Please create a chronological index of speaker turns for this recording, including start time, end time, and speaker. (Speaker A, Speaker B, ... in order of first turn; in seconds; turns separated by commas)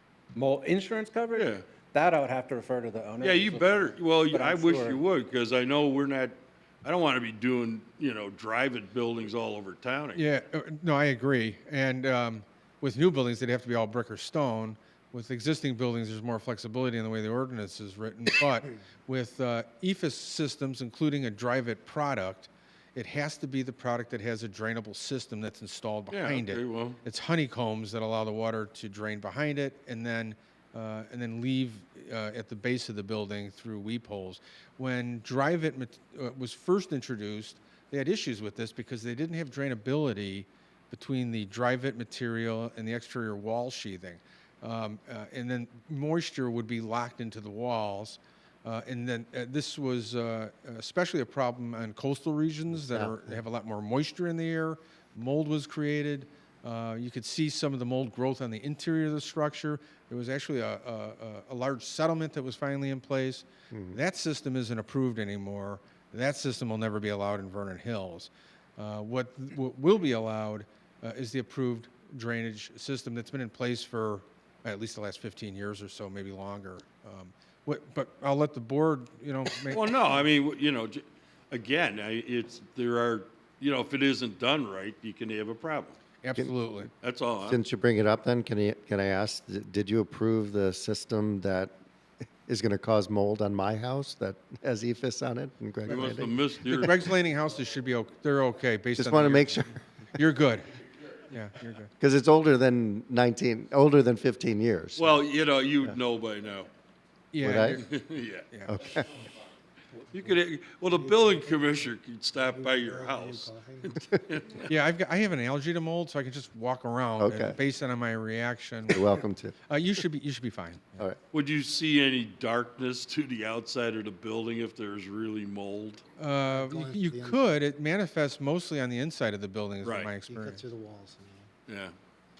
Speaker A: 0.3-5.0, Speaker B: 1.3-1.6, Speaker B: 3.2-10.2, Speaker C: 10.1-79.9, Speaker B: 26.1-27.0, Speaker D: 52.7-53.3, Speaker D: 63.7-64.0, Speaker B: 79.7-86.0, Speaker C: 86.2-86.9, Speaker B: 87.0-87.6, Speaker D: 87.5-91.7, Speaker D: 92.5-96.3, Speaker B: 95.8-97.1, Speaker C: 96.7-100.7, Speaker D: 99.0-99.8, Speaker C: 101.3-101.9, Speaker D: 102.0-105.2, Speaker B: 105.0-106.7, Speaker C: 107.3-107.9, Speaker D: 107.4-107.9, Speaker B: 107.8-108.5, Speaker C: 108.5-109.0, Speaker D: 108.7-109.0, Speaker B: 110.1-114.7, Speaker E: 110.9-111.7, Speaker E: 112.4-114.0, Speaker C: 114.7-119.1, Speaker D: 117.2-117.6, Speaker D: 118.9-119.5, Speaker C: 119.7-121.0, Speaker B: 121.3-126.0, Speaker C: 126.2-130.6, Speaker E: 126.5-127.4, Speaker B: 129.8-130.1, Speaker E: 130.3-131.5, Speaker B: 131.7-131.9